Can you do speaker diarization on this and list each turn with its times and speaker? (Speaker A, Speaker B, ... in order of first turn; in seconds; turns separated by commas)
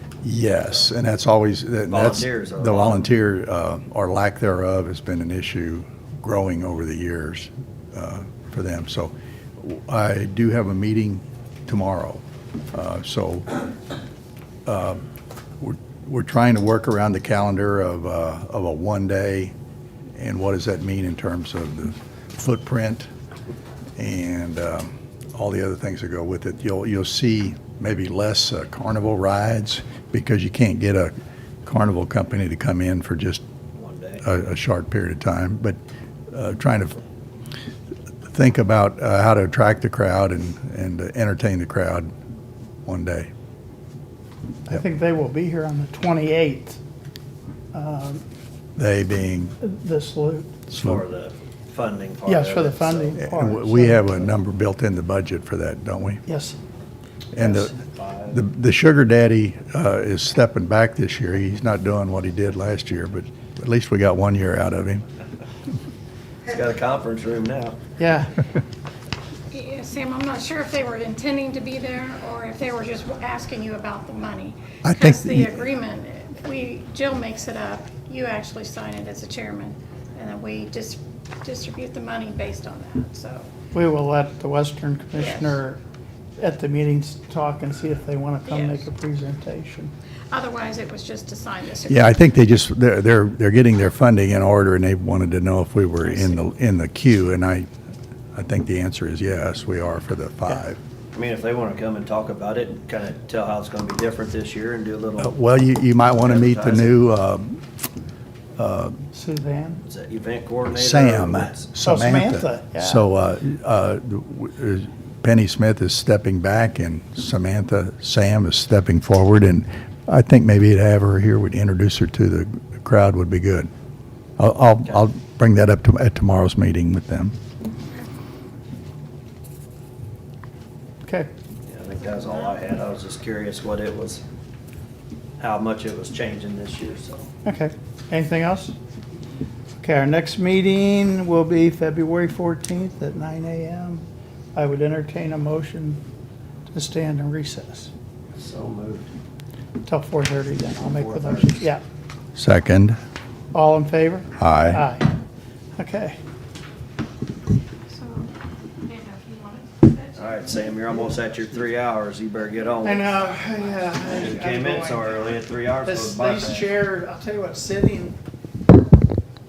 Speaker A: 0.2-12.2, Speaker B: 1.9-3.1, Speaker A: 12.7-13.5, Speaker A: 14.7-15.0, Speaker A: 15.6-19.5, Speaker A: 20.2-23.1, Speaker A: 24.0-31.1, Speaker A: 31.6-33.4, Speaker B: 33.7-34.2, Speaker A: 34.2-35.8, Speaker A: 36.3-37.0, Speaker A: 38.3-42.1, Speaker A: 42.9-43.3, Speaker C: 44.7-46.8, Speaker C: 47.7-48.2, Speaker A: 48.8-49.5, Speaker C: 49.6-50.6, Speaker A: 50.7-51.0, Speaker B: 50.7-53.2, Speaker C: 52.3-54.3, Speaker A: 53.2-56.2, Speaker C: 56.3-56.6, Speaker A: 57.3-57.8, Speaker B: 57.4-58.4, Speaker A: 58.3-65.0, Speaker B: 66.5-67.8, Speaker C: 68.0-68.4, Speaker D: 69.5-83.5, Speaker A: 74.8-75.6, Speaker C: 83.7-85.8, Speaker D: 85.2-85.6, Speaker C: 86.4-89.9, Speaker D: 88.5-88.9, Speaker D: 90.3-92.2, Speaker A: 91.9-97.7, Speaker D: 96.0-96.4, Speaker A: 98.3-100.8, Speaker B: 101.1-105.3, Speaker A: 105.2-107.6, Speaker B: 106.1-107.0, Speaker A: 108.6-109.0, Speaker C: 109.1-109.8, Speaker B: 109.8-111.7, Speaker A: 110.7-123.7, Speaker C: 111.8-113.0, Speaker A: 124.4-127.3, Speaker C: 131.0-131.3, Speaker B: 131.7-134.2, Speaker B: 135.4-137.3, Speaker C: 137.4-138.7, Speaker C: 139.8-146.0, Speaker C: 146.7-147.9, Speaker B: 148.3-149.1, Speaker C: 149.8-151.8, Speaker B: 150.8-151.7, Speaker A: 152.3-153.0, Speaker C: 153.5-155.1, Speaker A: 154.4-154.9, Speaker C: 155.8-156.2, Speaker D: 157.9-160.5, Speaker B: 160.1-163.2, Speaker D: 162.8-164.1, Speaker C: 162.8-168.2, Speaker B: 164.1-166.7